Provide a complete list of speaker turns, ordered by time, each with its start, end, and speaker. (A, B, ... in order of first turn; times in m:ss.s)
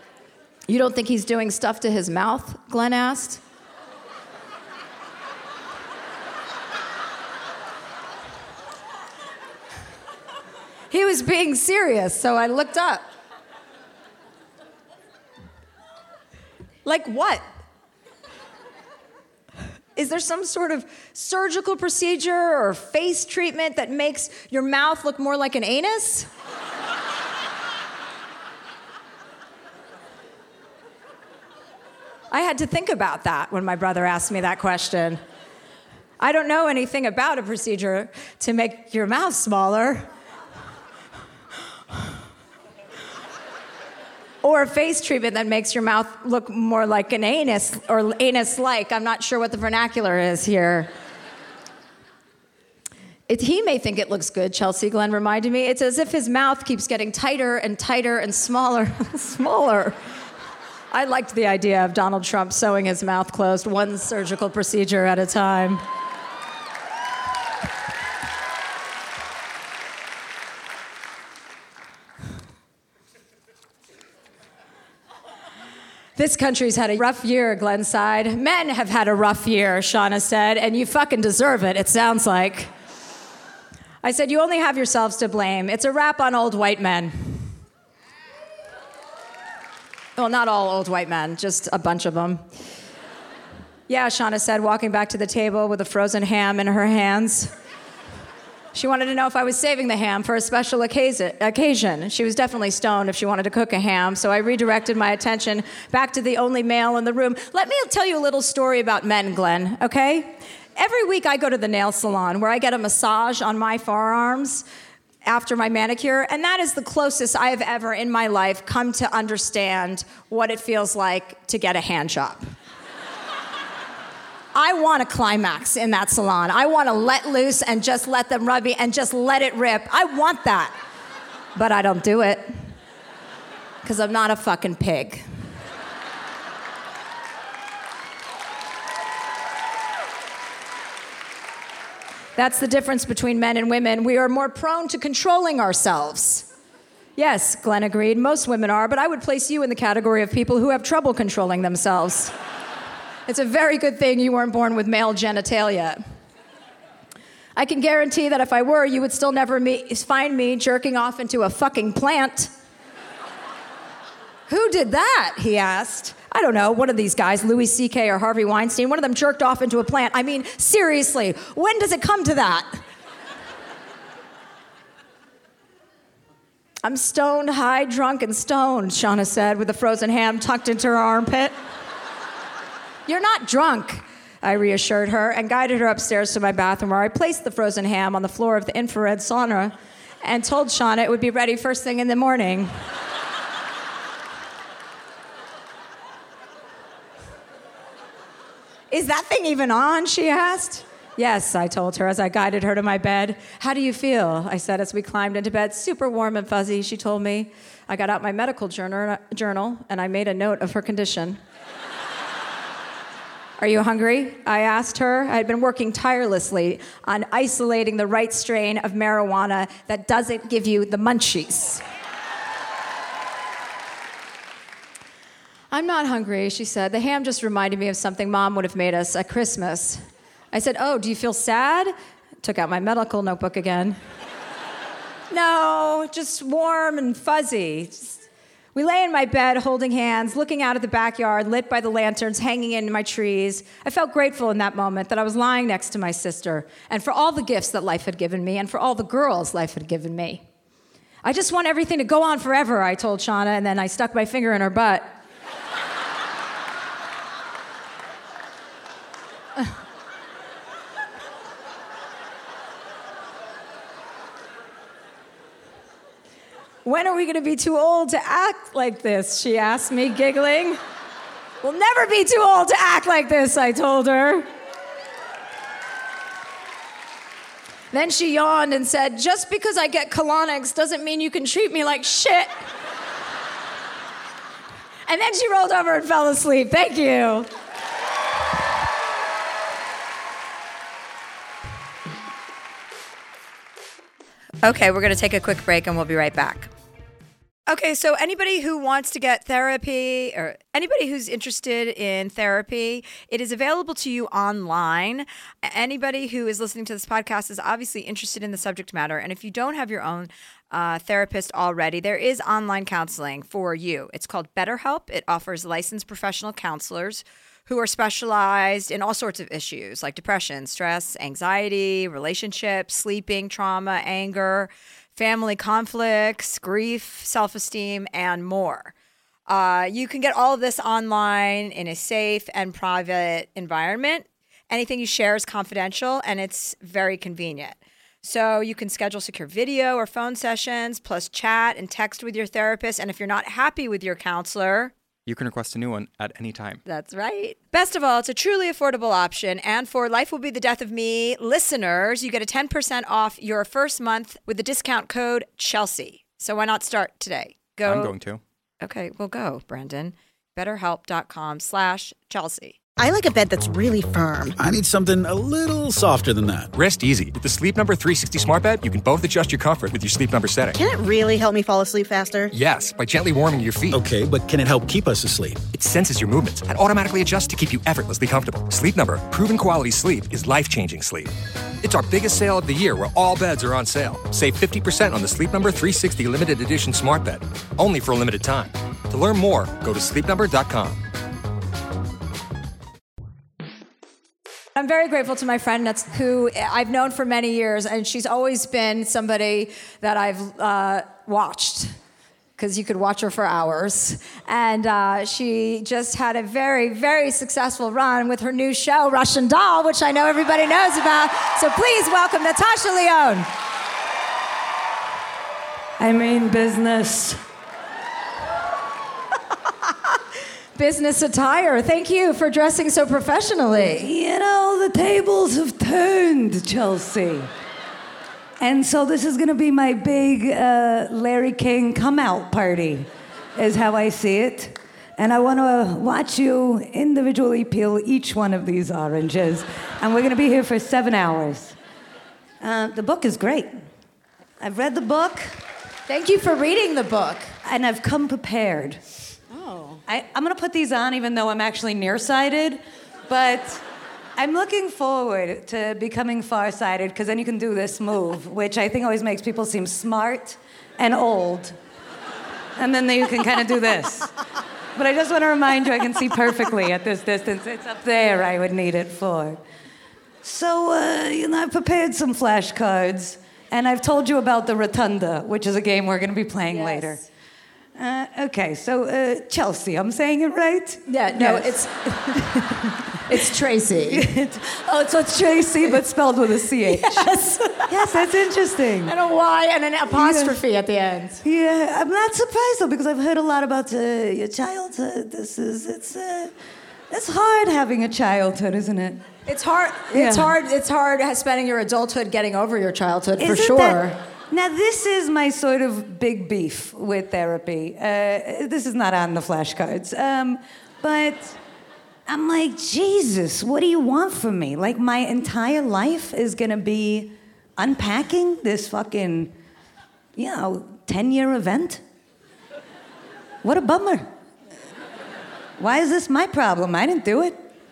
0:00.7-0:03.4 A
0:10.9-0:13.0 A
0:16.8-0:17.4 A
0:19.9-0:26.3 A
0:32.3-0:35.2 A
0:36.2-0:40.1 A
0:44.4-0:50.9 A
0:53.3-1:00.0 A
1:00.9-1:05.8 A
1:16.2-1:22.7 A
1:24.0-1:27.5 A
1:30.2-1:32.4 A
1:33.9-1:37.5 A
1:38.7-1:54.6 A
1:55.2-2:02.4 A
2:04.5-2:10.7 A
2:11.5-2:12.7 A
2:13.8-2:15.2 A
2:22.4-2:26.4 A
2:27.2-2:32.3 A
2:33.3-2:36.0 A
2:37.6-2:42.5 A
2:44.5-2:52.8 A
2:56.8-3:01.5 A
3:03.1-3:12.8 A
3:18.9-3:31.4 A
3:33.6-3:41.8 A
3:45.7-3:54.0 A
3:55.3-3:58.2 A
3:58.7-4:10.4 A
4:11.2-4:15.1 A
4:26.8-4:30.8 A
4:31.6-4:34.5 A
4:37.9-4:42.5 A
4:45.1-4:47.5 A
4:54.6-4:56.7 A
4:57.7-5:28.9 A
5:29.5-5:44.9 A
5:45.2-5:46.8 B
5:46.8-5:58.1 A
5:57.8-5:58.4 B
5:58.8-6:02.8 A
6:03.0-6:04.6 C
6:04.6-6:06.7 D
6:06.7-6:10.8 E
6:10.7-6:12.5 C
6:12.5-6:14.0 E
6:13.9-6:15.6 D
6:15.7-6:31.0 E
6:34.7-6:41.9 A
6:42.6-6:53.5 A
6:56.0-6:57.4 F
7:00.8-7:04.1 A
7:04.0-7:07.5 F
7:08.6-7:21.7 F
7:22.6-7:23.8 F
7:24.6-7:25.6 F
7:26.1-7:27.5 A
7:27.6-7:29.0 F
7:29.5-7:30.0 A
7:30.0-7:33.8 F
7:34.4-7:41.8 F
7:42.8-7:44.3 F
7:45.0-7:49.6 F
7:50.4-7:57.2 F
7:56.7-7:57.2 A
7:58.0-8:09.1 F
8:01.1-8:02.4 A
8:03.2-8:04.3 A
8:06.9-8:08.1 A
8:09.0-8:11.4 A
8:10.1-8:10.6 F
8:11.4-8:16.5 F
8:17.1-8:19.2 F
8:19.4-8:24.1 A
8:20.1-8:20.6 F
8:23.4-8:31.6 F
8:32.3-8:39.5 F
8:40.4-8:42.0 F
8:43.6-8:44.3 F
8:45.8-8:47.6 F